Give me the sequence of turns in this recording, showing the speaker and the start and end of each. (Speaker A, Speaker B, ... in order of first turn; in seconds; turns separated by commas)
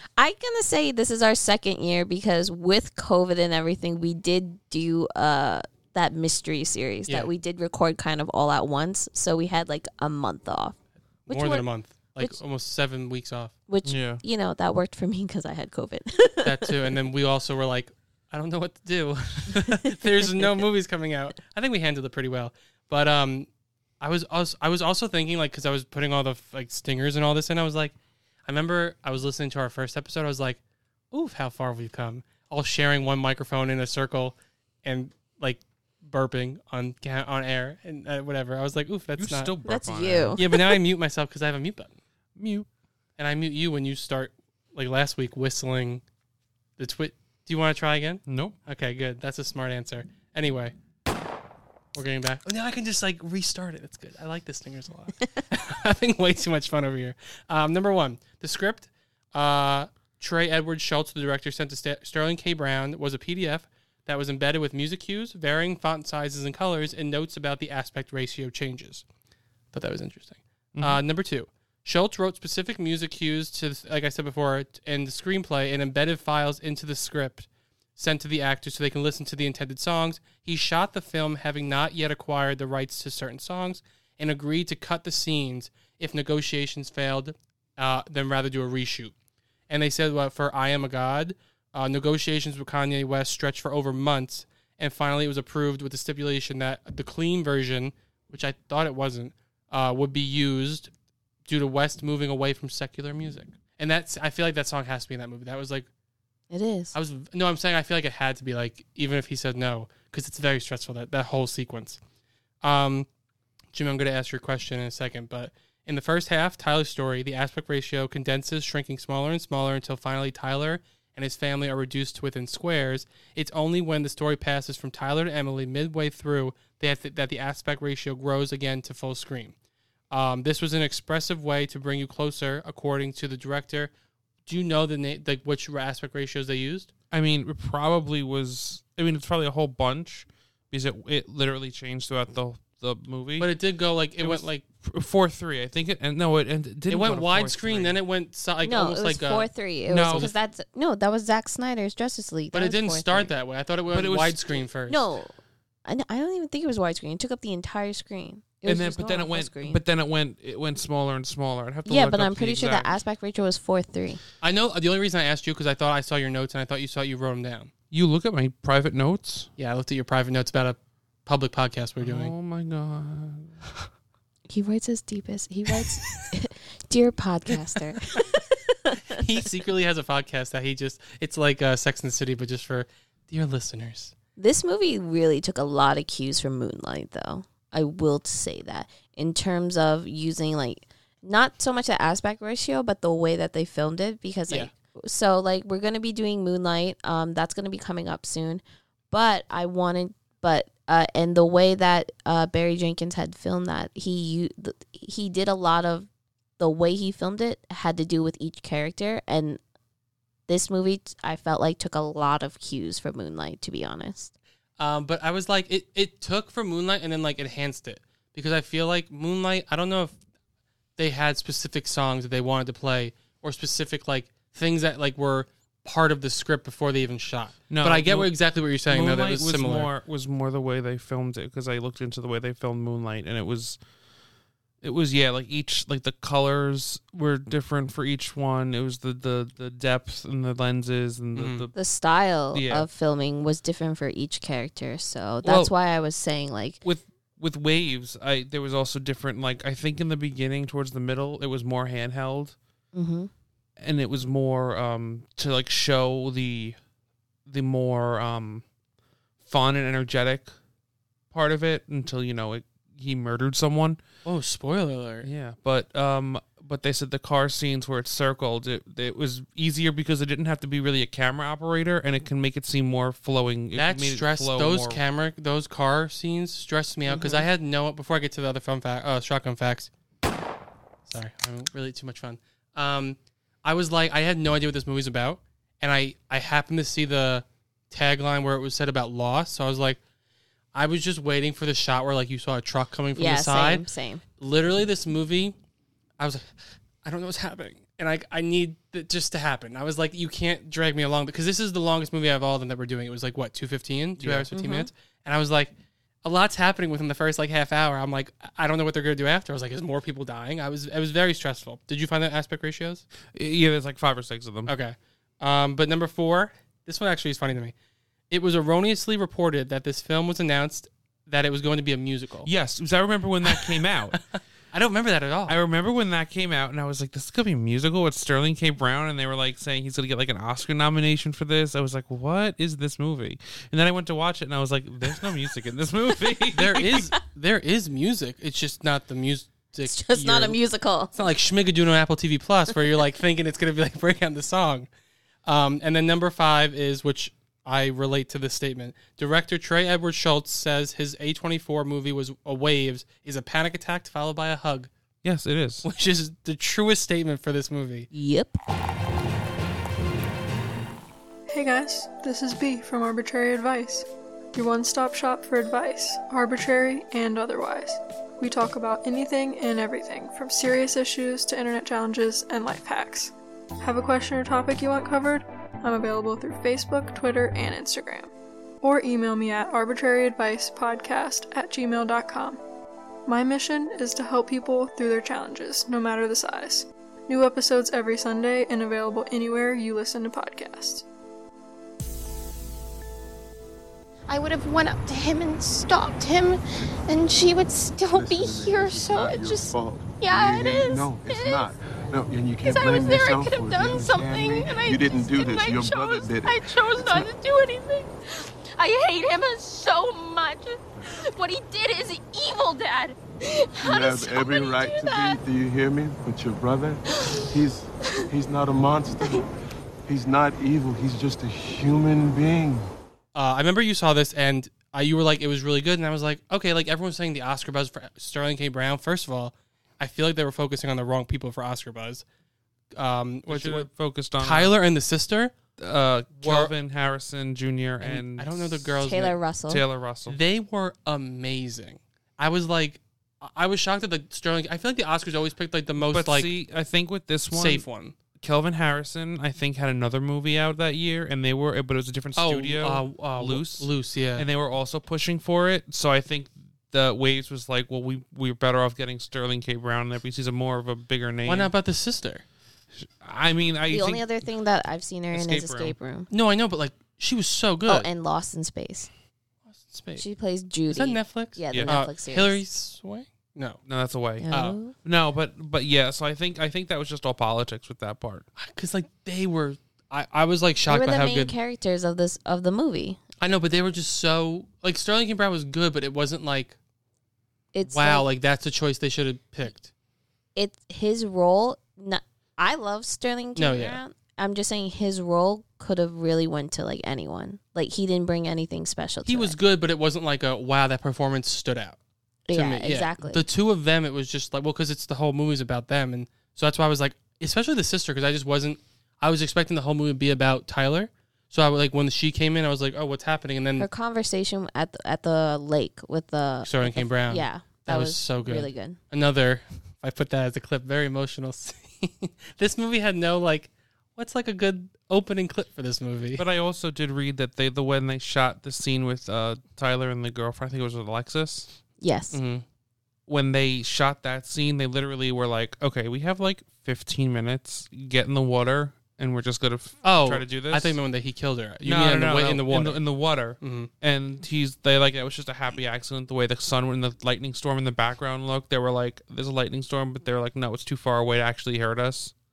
Speaker A: 0.2-11.7, Speaker B: 11.3-13.5, Speaker A: 13.7-16.7, Speaker C: 13.8-14.2, Speaker B: 16.4-23.5, Speaker A: 19.7-20.5, Speaker B: 24.0-27.9, Speaker B: 28.4-30.6, Speaker B: 31.1-39.5, Speaker C: 39.2-40.4, Speaker A: 39.6-40.7, Speaker B: 40.4-42.0, Speaker C: 42.4-42.7, Speaker B: 43.2-46.0, Speaker B: 46.8-50.7, Speaker C: 48.2-48.5, Speaker B: 51.9-69.0, Speaker B: 69.7-89.1, Speaker C: 70.8-71.0, Speaker B: 89.7-100.9, Speaker B: 101.5-105.9, Speaker A: 106.5-106.9, Speaker B: 106.9-112.0, Speaker B: 112.6-113.1, Speaker B: 113.7-129.5, Speaker B: 130.1-133.9, Speaker B: 134.4-136.9, Speaker C: 137.1-143.5, Speaker B: 143.4-144.6, Speaker C: 144.2-148.0, Speaker B: 146.9-150.3, Speaker A: 148.6-153.3, Speaker B: 152.5-155.0, Speaker C: 153.9-154.6, Speaker A: 154.9-159.8, Speaker C: 158.6-163.0, Speaker A: 161.8-164.2, Speaker B: 164.4-167.7, Speaker C: 167.9-169.5, Speaker B: 169.6-172.3, Speaker C: 172.0-173.6, Speaker A: 174.5-179.2, Speaker B: 179.1-184.1, Speaker A: 184.4-206.1, Speaker A: 206.6-209.6, Speaker A: 210.5-214.3, Speaker B: 214.8-220.1, Speaker B: 221.0-229.9, Speaker C: 227.7-228.3, Speaker C: 228.9-233.8, Speaker C: 234.8-241.7, Speaker B: 241.3-241.7, Speaker A: 241.7-246.8, Speaker C: 242.5-242.9, Speaker C: 246.8-252.6, Speaker A: 252.9-253.3, Speaker C: 253.8-256.8, Speaker C: 257.4-258.6, Speaker C: 259.4-260.5, Speaker C: 261.3-264.0, Speaker B: 264.2-265.3, Speaker C: 265.2-275.0, Speaker B: 273.7-279.9, Speaker A: 277.1-277.5, Speaker B: 281.1-290.0, Speaker B: 290.7-293.8, Speaker A: 293.1-294.2, Speaker B: 294.4-295.6, Speaker B: 296.2-296.5, Speaker B: 297.0-305.7, Speaker C: 304.2-304.5, Speaker A: 304.5-304.9, Speaker B: 306.2-313.0, Speaker C: 313.3-314.7, Speaker B: 314.7-317.7, Speaker B: 318.3-322.5, Speaker C: 322.4-324.2, Speaker B: 323.4-325.6, Speaker C: 325.5-337.0, Speaker B: 336.5-340.6, Speaker A: 339.9-341.1, Speaker B: 341.1-344.9, Speaker B: 345.4-354.9, Speaker C: 355.2-355.9, Speaker B: 355.8-358.1, Speaker A: 358.1-358.6, Speaker D: 361.5-382.6, Speaker D: 383.2-391.0, Speaker E: 394.3-401.7, Speaker F: 398.1-407.3, Speaker E: 402.6-408.1, Speaker E: 408.8-410.8, Speaker E: 411.3-413.1, Speaker F: 413.8-419.5, Speaker E: 413.8-415.4, Speaker F: 420.1-422.9, Speaker B: 423.3-432.2, Speaker B: 432.9-433.9, Speaker C: 433.5-434.7, Speaker B: 434.4-435.5, Speaker C: 435.8-439.0, Speaker B: 436.4-436.7, Speaker B: 438.0-439.4, Speaker A: 439.0-439.8, Speaker C: 439.7-440.4, Speaker B: 440.3-446.5, Speaker C: 446.0-447.9, Speaker B: 447.5-448.1, Speaker C: 448.4-461.7, Speaker B: 452.4-454.4, Speaker B: 461.4-462.4, Speaker C: 462.9-464.3, Speaker A: 463.9-466.3, Speaker C: 465.3-465.9, Speaker B: 466.3-468.1, Speaker A: 467.9-469.1, Speaker B: 469.7-470.2, Speaker A: 470.2-472.6, Speaker B: 470.9-473.8, Speaker C: 471.7-472.0, Speaker C: 473.9-478.4, Speaker A: 474.4-474.9, Speaker B: 474.5-474.8, Speaker B: 478.6-481.5, Speaker A: 480.9-483.2, Speaker B: 483.4-486.8, Speaker A: 487.7-488.2, Speaker B: 487.9-489.9, Speaker A: 490.5-499.6, Speaker B: 493.6-494.0, Speaker B: 499.2-502.0, Speaker A: 502.5-503.4, Speaker B: 502.5-513.9, Speaker A: 513.8-519.0, Speaker B: 516.6-526.4, Speaker C: 526.4-531.7, Speaker A: 532.0-532.4, Speaker B: 532.3-532.6, Speaker C: 533.3-541.0, Speaker B: 540.0-543.0, Speaker C: 541.8-552.3, Speaker B: 543.6-543.9